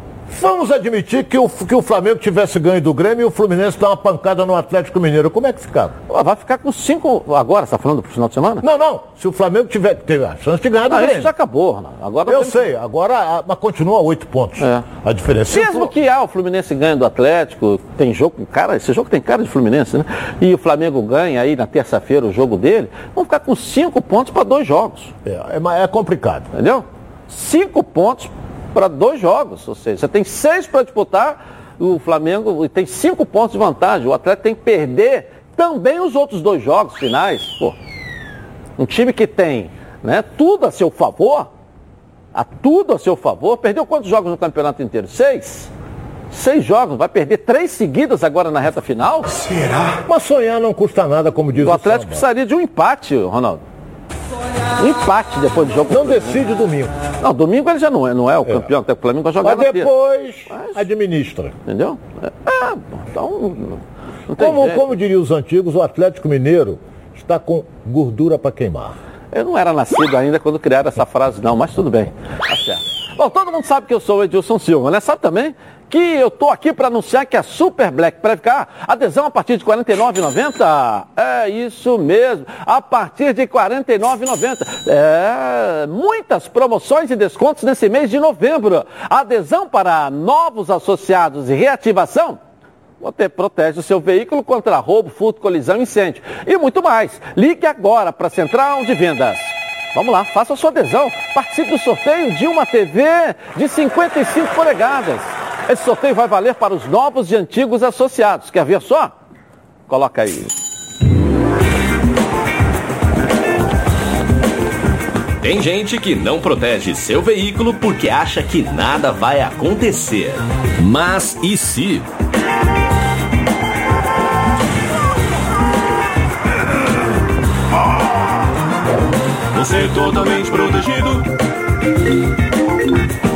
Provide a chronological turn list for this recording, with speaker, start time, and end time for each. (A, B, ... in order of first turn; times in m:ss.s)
0:00.3-0:06.0 A
0:06.1-0:08.6 B
0:08.6-0:11.3 A
0:10.9-0:12.7 B
0:12.2-0:15.9 A
0:14.6-0:14.9 B
0:15.5-0:25.1 B
0:25.2-0:26.5 A
0:26.5-0:37.8 B
0:38.8-0:41.5 B
0:42.3-0:45.7 B
0:46.3-0:49.6 B
0:49.9-0:52.2 A
0:51.6-0:53.6 B
0:54.8-0:56.4 B
0:55.9-0:57.0 A
0:57.2-0:59.9 B
0:59.4-1:01.6 A
1:00.5-1:00.8 B
1:01.6-1:04.9 B
1:04.4-1:09.0 A
1:09.3-1:32.4 B
1:33.0-1:49.1 B
1:49.9-1:50.5 B
1:55.4-2:02.1 C
2:09.5-2:11.3 C